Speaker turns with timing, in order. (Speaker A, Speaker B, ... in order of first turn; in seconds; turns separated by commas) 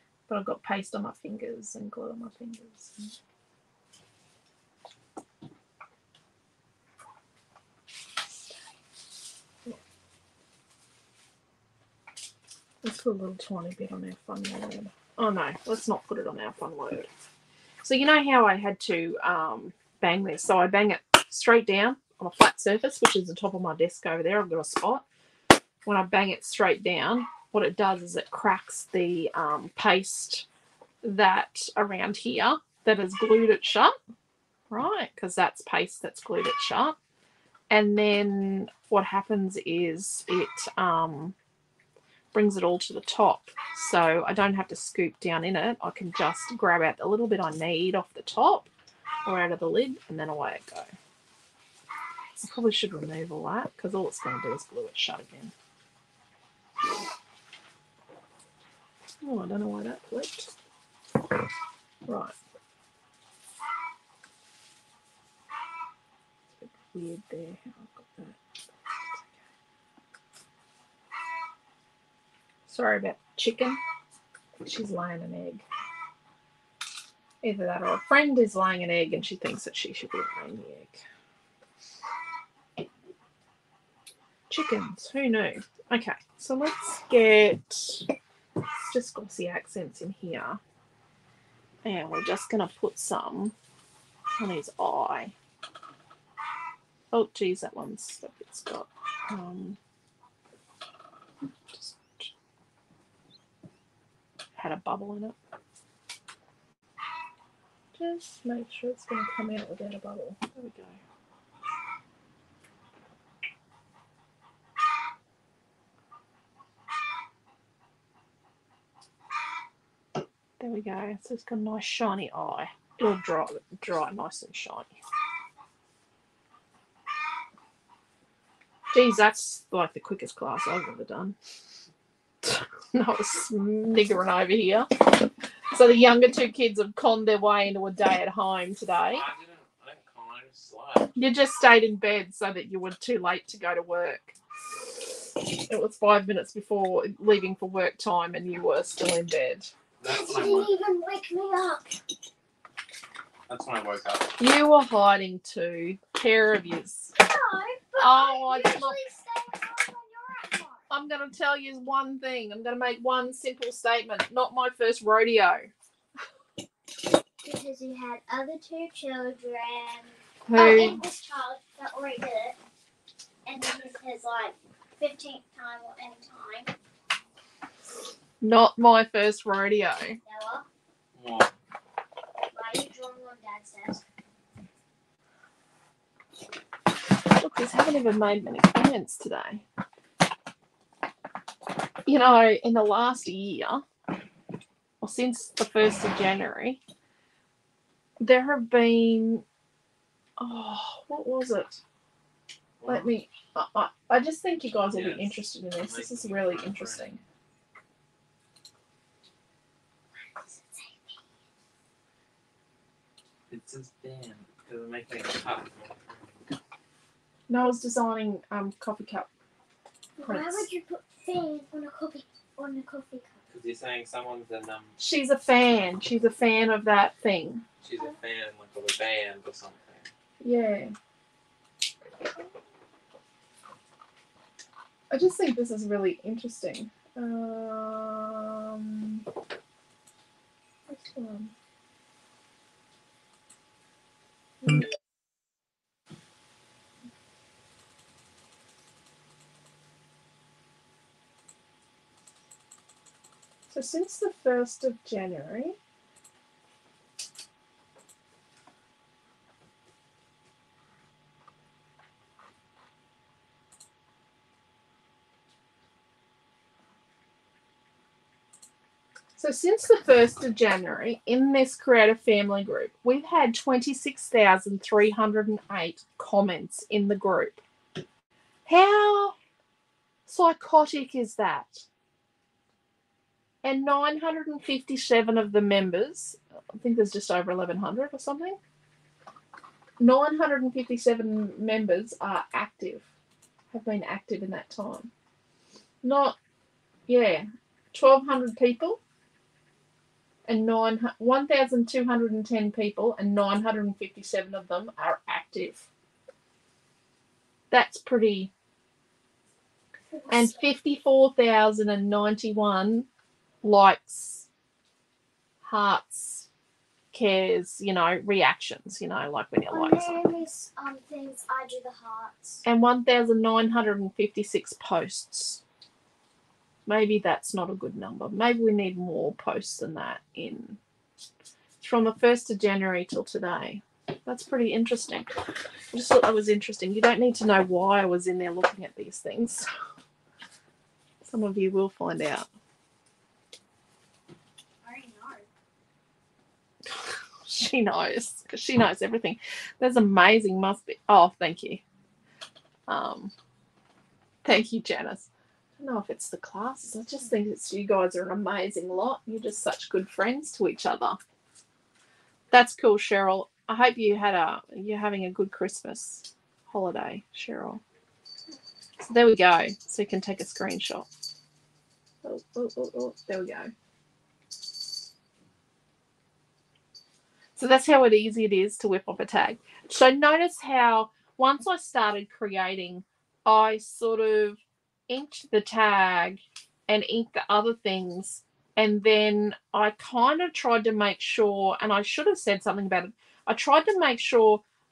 Speaker A: 0.3-3.1, Speaker A: 12.8-17.1, Speaker A: 17.8-25.0, Speaker A: 25.9-30.4, Speaker A: 31.0-33.9, Speaker A: 34.7-37.0, Speaker A: 37.7-41.3, Speaker A: 42.3-48.7, Speaker A: 49.2-50.9, Speaker A: 52.4-55.5, Speaker A: 59.2-60.5, Speaker A: 62.0-62.4, Speaker A: 66.6-68.4, Speaker A: 69.1-69.4, Speaker A: 72.7-73.8, Speaker A: 74.6-75.6, Speaker A: 77.4-81.0, Speaker A: 84.5-88.1, Speaker A: 88.8-90.6, Speaker A: 91.8-93.5, Speaker A: 94.4-95.3, Speaker A: 97.1-99.8, Speaker A: 101.7-102.3, Speaker A: 104.6-105.3, Speaker A: 107.9-111.0, Speaker A: 120.6-124.9, Speaker A: 128.9-131.3, Speaker A: 132.4-139.2, Speaker B: 139.1-141.1, Speaker A: 141.2-144.3, Speaker A: 145.4-149.7, Speaker B: 150.0-150.7, Speaker C: 150.0-152.0, Speaker B: 153.5-154.4, Speaker A: 154.4-157.1, Speaker C: 157.2-160.8, Speaker A: 158.0-159.0, Speaker A: 160.9-165.7, Speaker C: 167.4-172.6, Speaker A: 170.4-171.0, Speaker C: 173.4-176.7, Speaker A: 178.4-180.2, Speaker C: 180.3-180.7, Speaker B: 181.1-181.5, Speaker C: 182.5-184.0, Speaker A: 187.4-189.6, Speaker A: 192.1-193.8, Speaker A: 195.0-196.8, Speaker A: 198.2-199.4, Speaker A: 200.4-201.8, Speaker B: 202.8-203.1, Speaker A: 202.8-207.2, Speaker B: 204.9-207.2, Speaker C: 210.2-211.2, Speaker B: 213.5-216.4, Speaker A: 217.5-219.3, Speaker C: 220.2-223.4, Speaker A: 220.2-220.7, Speaker B: 223.5-224.9, Speaker A: 225.0-227.6, Speaker B: 227.8-230.1, Speaker A: 230.4-230.9, Speaker A: 235.1-239.2, Speaker A: 240.9-241.5, Speaker A: 244.6-244.9, Speaker A: 253.7-255.8, Speaker A: 269.4-277.6, Speaker A: 278.6-279.4, Speaker A: 280.3-281.9, Speaker A: 283.6-288.6, Speaker A: 290.0-293.1, Speaker A: 293.7-295.1, Speaker A: 296.0-296.4, Speaker A: 297.1-299.0, Speaker A: 300.5-305.9, Speaker A: 307.7-308.5, Speaker C: 310.1-310.6, Speaker A: 310.3-313.1, Speaker A: 313.6-314.5, Speaker A: 315.6-316.5, Speaker A: 317.1-320.3, Speaker C: 319.7-322.6, Speaker A: 322.6-325.6, Speaker A: 326.9-330.8, Speaker A: 331.8-335.4, Speaker A: 335.9-339.7, Speaker A: 341.2-342.5, Speaker C: 344.8-345.5, Speaker A: 346.9-351.8, Speaker A: 352.9-353.3, Speaker A: 354.4-361.2, Speaker A: 362.5-367.8, Speaker A: 369.0-371.1, Speaker A: 372.2-373.7, Speaker A: 377.6-394.6